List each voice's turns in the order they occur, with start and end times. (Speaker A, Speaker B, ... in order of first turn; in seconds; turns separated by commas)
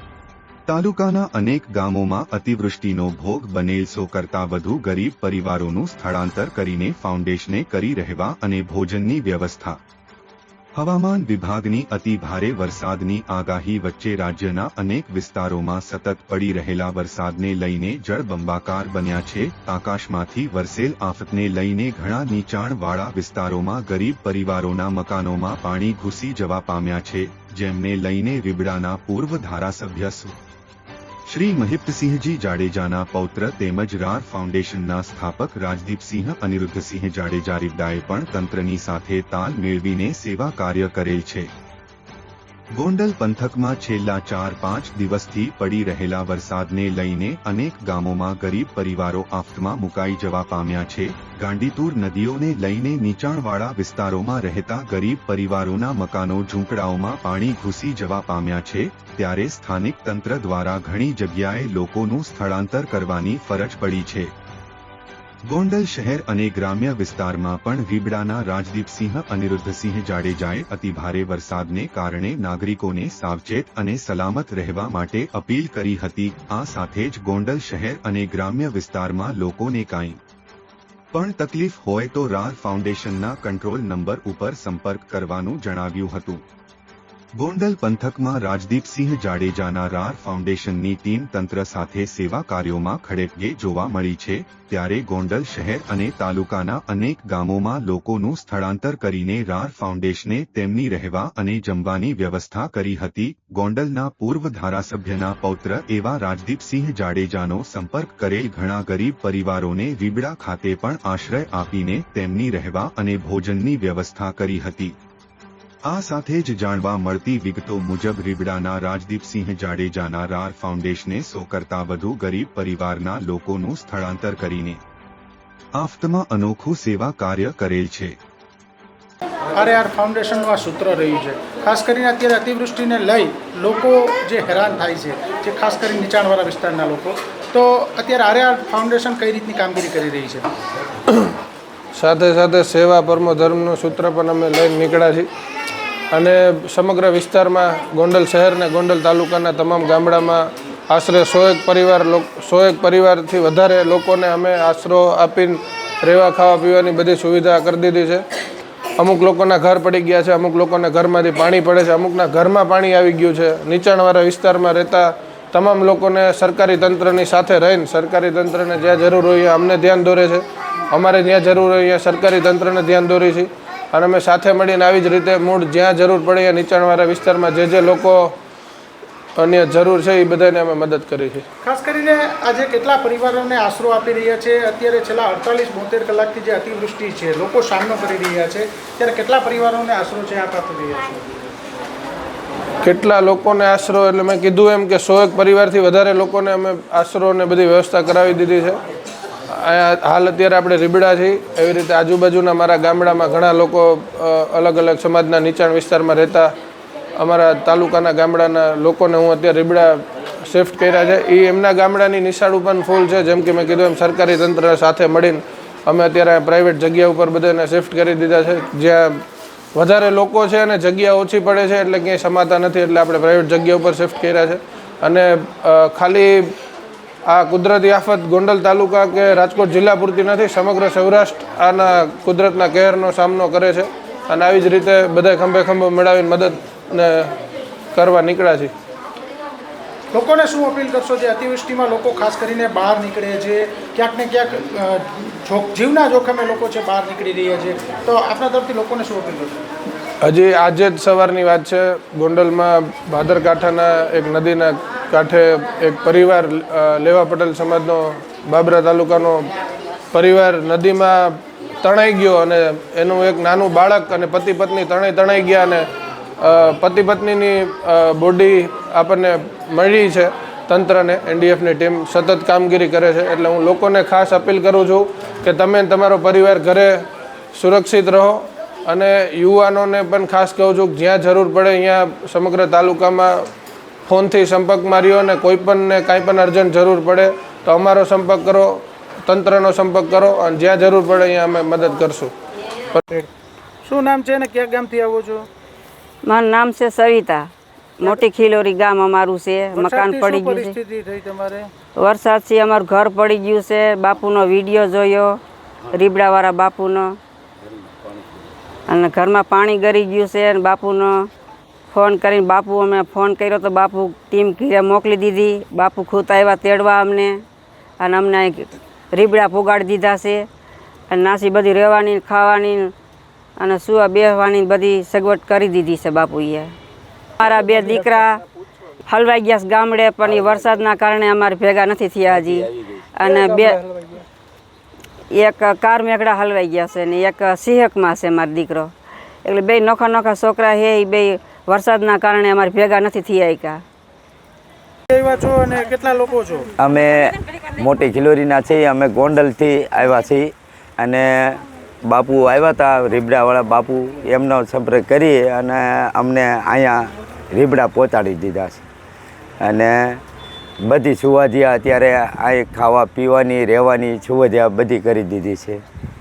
Speaker A: 0.7-9.8, Speaker A: 10.8-30.4, Speaker A: 31.3-41.5, Speaker A: 42.7-64.3, Speaker A: 65.5-80.2, Speaker A: 81.1-86.4, Speaker A: 87.3-114.9, Speaker A: 115.8-124.8, Speaker A: 125.7-128.2, Speaker B: 129.5-140.5, Speaker C: 141.9-145.3, Speaker C: 146.1-158.2, Speaker C: 159.0-178.3, Speaker C: 179.4-181.4, Speaker B: 181.6-191.3, Speaker C: 192.8-198.8, Speaker C: 199.5-206.5, Speaker C: 207.2-219.2, Speaker C: 219.7-226.5, Speaker C: 227.2-237.3, Speaker C: 237.9-238.7, Speaker B: 240.1-249.6, Speaker C: 250.2-259.5, Speaker C: 260.1-265.9, Speaker C: 266.4-283.5, Speaker C: 284.1-292.3, Speaker B: 293.8-295.4, Speaker D: 296.2-300.7, Speaker B: 299.7-301.7, Speaker D: 301.9-307.2, Speaker E: 307.8-308.3, Speaker D: 308.9-311.3, Speaker D: 311.9-317.4, Speaker D: 318.0-320.4, Speaker D: 321.1-322.9, Speaker D: 323.6-326.7, Speaker D: 327.4-328.4, Speaker D: 329.1-333.9, Speaker E: 330.2-330.8, Speaker E: 332.4-332.9, Speaker D: 335.3-338.9, Speaker D: 339.4-343.8, Speaker B: 345.1-346.7, Speaker E: 346.8-358.8, Speaker E: 359.6-360.2, Speaker E: 360.8-365.8